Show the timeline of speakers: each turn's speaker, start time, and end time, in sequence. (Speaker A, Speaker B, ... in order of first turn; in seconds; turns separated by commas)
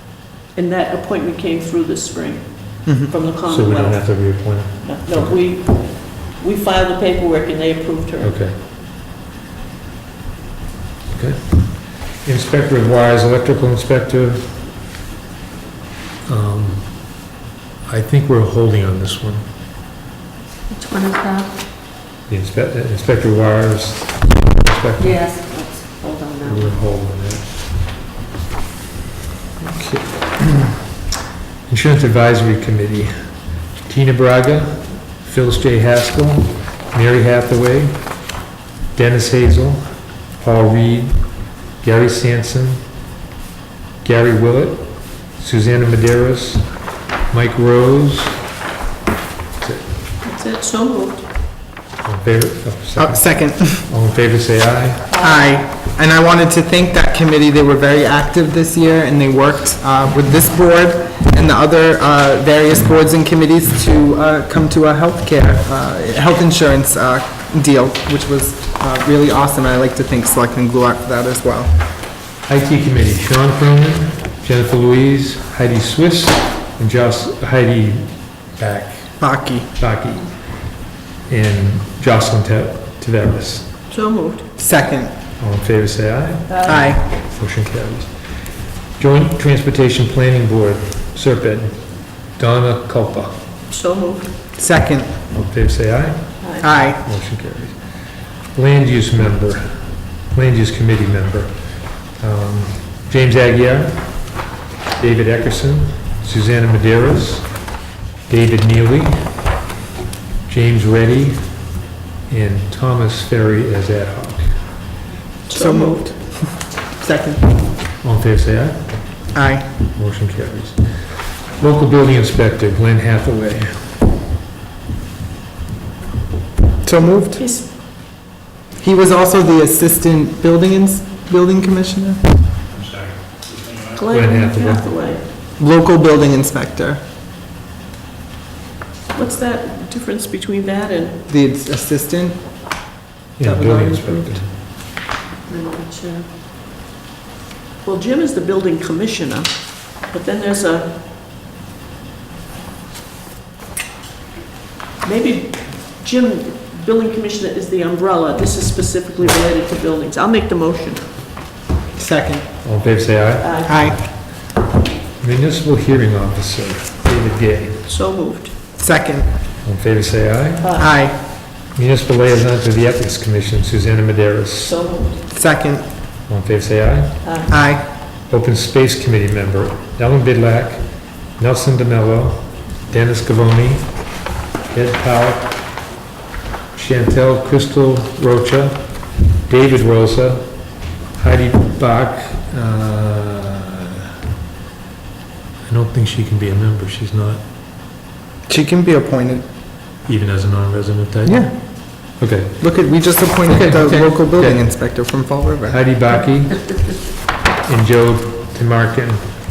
Speaker A: 0.6-8.4, Speaker B: 2.9-3.1, Speaker C: 3.5-5.4, Speaker C: 8.2-8.6, Speaker C: 11.1-14.7, Speaker C: 16.3-17.2, Speaker C: 17.9-19.4, Speaker D: 20.7-21.5, Speaker C: 22.3-25.3, Speaker D: 25.0-26.6, Speaker A: 25.2-26.1, Speaker C: 26.4-27.6, Speaker C: 29.6-30.8, Speaker C: 31.7-33.1, Speaker C: 33.8-38.0, Speaker C: 38.9-39.8, Speaker C: 40.4-41.2, Speaker C: 41.8-42.8, Speaker C: 44.0-46.7, Speaker C: 47.3-48.4, Speaker C: 49.6-49.9, Speaker A: 50.2-51.3, Speaker C: 52.0-55.1, Speaker B: 53.0-53.8, Speaker A: 55.1-55.6, Speaker B: 55.2-71.7, Speaker C: 72.5-79.2, Speaker B: 79.2-79.7, Speaker C: 79.8-80.3, Speaker C: 81.3-83.7, Speaker A: 83.9-84.5, Speaker B: 84.6-85.1, Speaker C: 85.4-88.1, Speaker A: 86.5-86.8, Speaker B: 86.7-87.0, Speaker C: 89.0-93.3, Speaker A: 93.7-94.3, Speaker B: 94.6-95.1, Speaker C: 95.3-97.8, Speaker A: 96.4-96.7, Speaker B: 96.6-97.0, Speaker C: 98.5-99.8, Speaker C: 100.3-101.5, Speaker C: 102.2-104.3, Speaker C: 105.0-107.5, Speaker C: 108.3-109.3, Speaker C: 110.5-111.5, Speaker C: 112.3-114.5, Speaker A: 115.5-116.1, Speaker B: 115.5-117.5, Speaker C: 118.0-119.0, Speaker B: 119.3-119.7, Speaker C: 119.9-120.8, Speaker C: 121.5-124.0, Speaker B: 126.8-127.4, Speaker A: 127.3-127.7, Speaker B: 128.8-132.2, Speaker C: 132.8-133.1, Speaker C: 133.8-134.9, Speaker A: 133.9-135.2, Speaker B: 135.6-137.0, Speaker A: 139.1-141.2, Speaker B: 141.3-142.4, Speaker C: 143.4-144.5, Speaker B: 143.4-144.4, Speaker A: 145.5-146.2, Speaker D: 145.6-146.1, Speaker A: 147.8-150.9, Speaker A: 155.0-161.0, Speaker B: 162.0-162.5, Speaker C: 162.6-164.5, Speaker A: 163.4-163.8, Speaker B: 163.7-164.0, Speaker C: 165.2-167.9, Speaker A: 167.9-168.5, Speaker B: 168.8-169.3, Speaker C: 169.6-170.7, Speaker A: 170.6-170.9, Speaker B: 170.8-171.2, Speaker C: 171.7-174.8, Speaker A: 174.7-175.2, Speaker B: 175.3-175.8, Speaker C: 176.3-177.2, Speaker A: 177.2-177.5, Speaker B: 177.5-177.8, Speaker C: 178.3-184.0, Speaker C: 184.7-185.6, Speaker C: 186.7-188.9, Speaker C: 189.5-190.5, Speaker C: 191.2-194.0, Speaker C: 195.7-197.4, Speaker B: 198.5-199.4, Speaker C: 200.1-202.8, Speaker B: 201.2-205.8, Speaker C: 203.4-204.7, Speaker C: 205.7-207.0, Speaker C: 207.7-209.3